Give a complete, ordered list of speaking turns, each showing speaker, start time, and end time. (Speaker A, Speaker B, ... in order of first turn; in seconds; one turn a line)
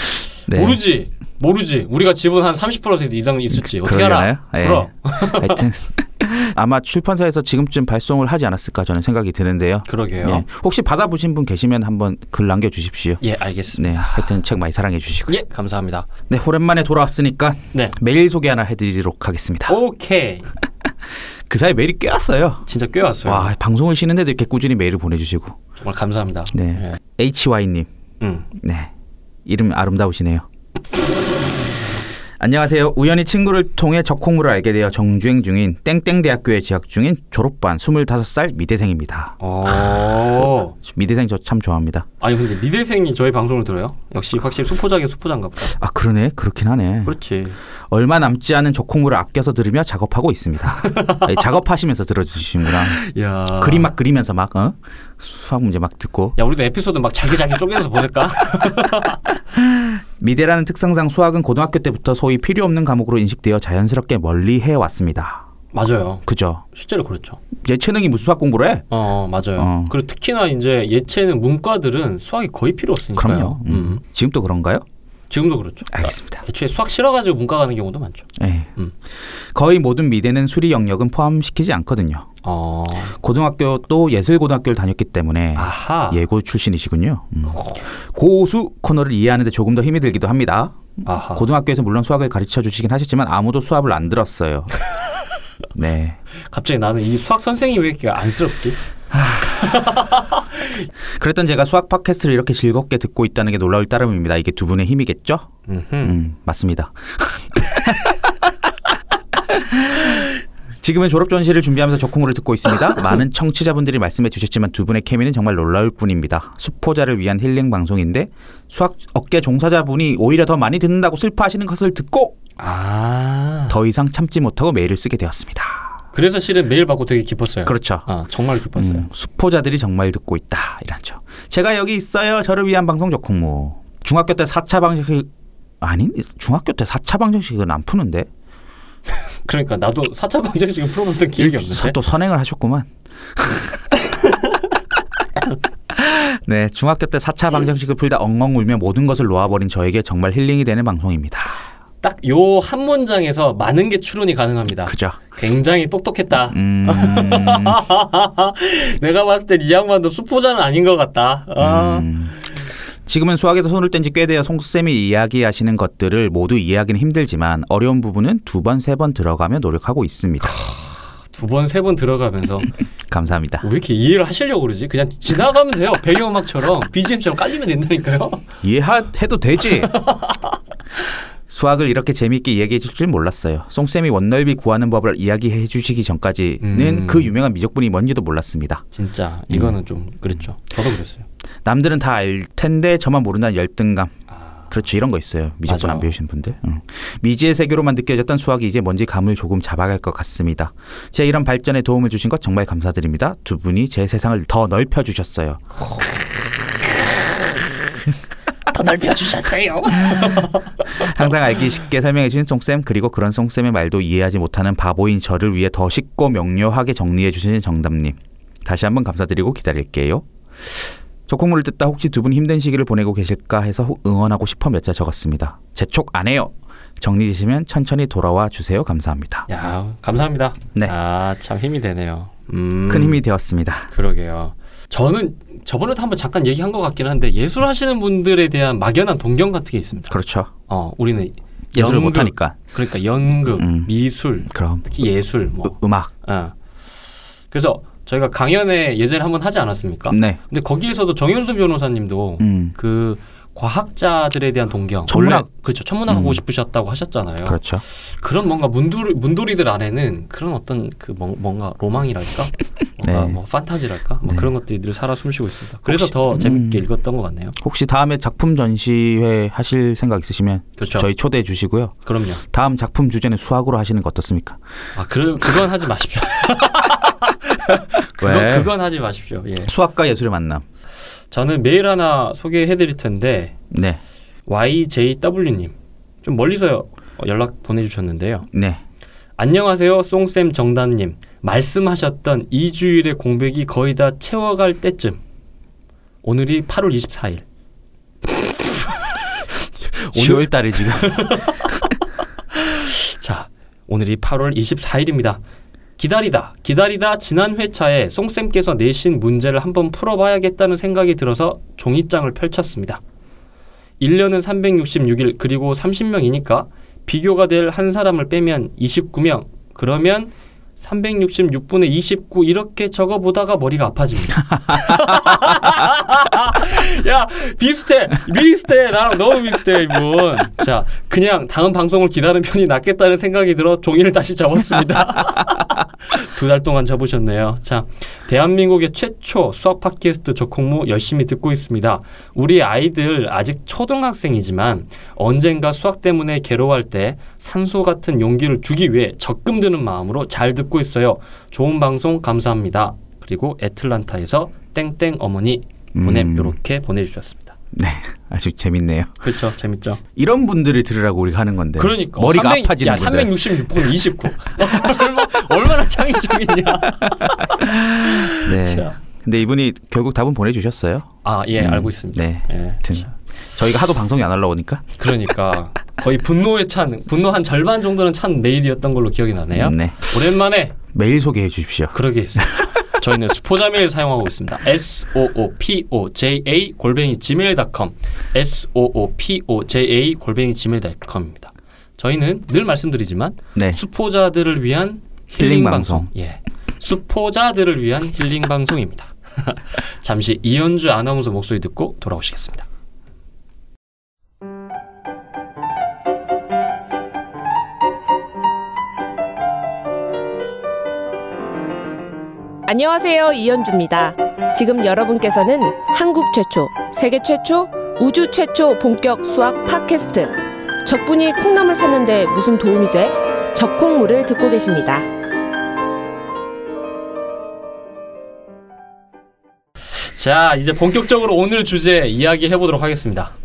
Speaker A: 0.5-0.8
Speaker B: 0.5-5.6
Speaker A: 3.6-13.2
Speaker B: 9.9-10.4
Speaker B: 13.2-14.4
Speaker A: 13.7-15.4
Speaker B: 15.3-16.1
Speaker A: 16.3-19.8
Speaker B: 19.7-20.5
Speaker A: 21.5-22.6
Speaker B: 22.6-23.5
Speaker A: 23.2-25.6
Speaker B: 25.8-27.0
Speaker A: 26.5-27.9
Speaker B: 28.2-28.5
Speaker A: 28.6-28.9
Speaker A: 29.5-30.4
Speaker A: 32.4-39.4
Speaker B: 39.4-40.8
Speaker A: 39.9-42.1
Speaker B: 42.2-45.8
Speaker A: 45.8-47.2
Speaker B: 47.0-47.6
Speaker A: 47.9-53.0
Speaker B: 50.8-51.3
Speaker B: 52.8-53.9
Speaker A: 53.6-56.4
Speaker B: 56.4-59.2
Speaker A: 59.6-65.4
Speaker B: 65.7-67.4
Speaker A: 66.3-66.6
Speaker A: 67.6-68.9
Speaker B: 68.9-74.0
Speaker A: 69.6-70.0
Speaker A: 73.2-74.8
Speaker B: 75.3-78.9
Speaker A: 75.9-76.4
Speaker A: 78.4-78.7
Speaker A: 79.4-82.3
Speaker B: 82.4-83.2
Speaker A: 83.2-90.8
Speaker B: 85.5-86.2
Speaker B: 91.0-91.5
Speaker A: 91.3-94.7
Speaker A: 95.7-96.2
Speaker B: 96.5-98.8
Speaker A: 99.1-99.5
Speaker B: 99.5-100.8
Speaker A: 101.2-105.5
Speaker B: 105.7-106.2
Speaker A: 106.0-108.2
Speaker A: 109.5-122.4
Speaker B: 122.6-123.8
Speaker A: 123.7-126.0
Speaker B: 126.1-129.1
Speaker A: 127.7-128.1
Speaker A: 128.8-135.3
Speaker A: 135.8-138.3
Speaker B: 139.4-142.0
Speaker A: 141.4-143.7
Speaker B: 144.1-144.4
Speaker A: 145.9-151.6
Speaker B: 152.0-162.1
Speaker A: 154.8-155.2
Speaker A: 156.5-157.8
Speaker A: 161.6-162.4
Speaker A: 163.1-170.7
Speaker B: 170.4-172.7
Speaker A: 173.1-173.7
Speaker B: 173.6-178.4
Speaker A: 178.6-179.9
Speaker B: 179.9-180.5
Speaker A: 181.5-188.8
Speaker B: 186.6-187.3
Speaker B: 188.9-191.3
Speaker A: 189.5-189.8
Speaker A: 191.7-194.1
Speaker A: 194.7-205.7
Speaker B: 195.7-196.1
Speaker B: 208.7-211.1
Speaker A: 210.0-229.5
Speaker B: 229.5-233.2
Speaker A: 232.9-233.9
Speaker B: 233.9-240.1
Speaker A: 240.1-240.5
Speaker B: 240.7-246.6
Speaker A: 241.7-242.6
Speaker A: 243.5-243.9
Speaker A: 244.5-244.8
Speaker A: 245.7-246.1
Speaker B: 247.5-267.6
Speaker A: 250.1-250.4
Speaker A: 252.4-252.8
Speaker A: 255.1-255.5
Speaker A: 256.1-256.4
Speaker A: 257.4-257.8
Speaker A: 263.0-263.4
Speaker A: 264.2-264.5
Speaker A: 265.9-266.8
Speaker A: 267.6-274.6
Speaker B: 270.8-271.1
Speaker B: 272.1-272.4
Speaker B: 275.0-279.7
Speaker A: 278.2-278.7
Speaker A: 279.7-280.6
Speaker B: 281.3-283.6
Speaker A: 283.7-284.0
Speaker B: 284.5-288.5
Speaker A: 288.5-288.8
Speaker B: 289.4-295.2
Speaker B: 296.2-297.4
Speaker B: 300.0-301.8
Speaker A: 300.1-301.4
Speaker B: 302.5-305.4
Speaker B: 306.0-313.0
Speaker B: 314.0-357.6
Speaker A: 355.9-356.6
Speaker A: 357.7-359.2
Speaker B: 359.2-360.0
Speaker A: 360.2-363.4
Speaker B: 361.8-369.0
Speaker A: 367.5-374.8
Speaker B: 371.2-373.1
Speaker B: 375.0-380.8
Speaker A: 379.5-380.1
Speaker A: 380.9-382.0
Speaker B: 381.9-402.7
Speaker A: 393.6-393.8
Speaker A: 395.4-396.1
Speaker C: 412.7-425.1
Speaker B: 429.9-433.3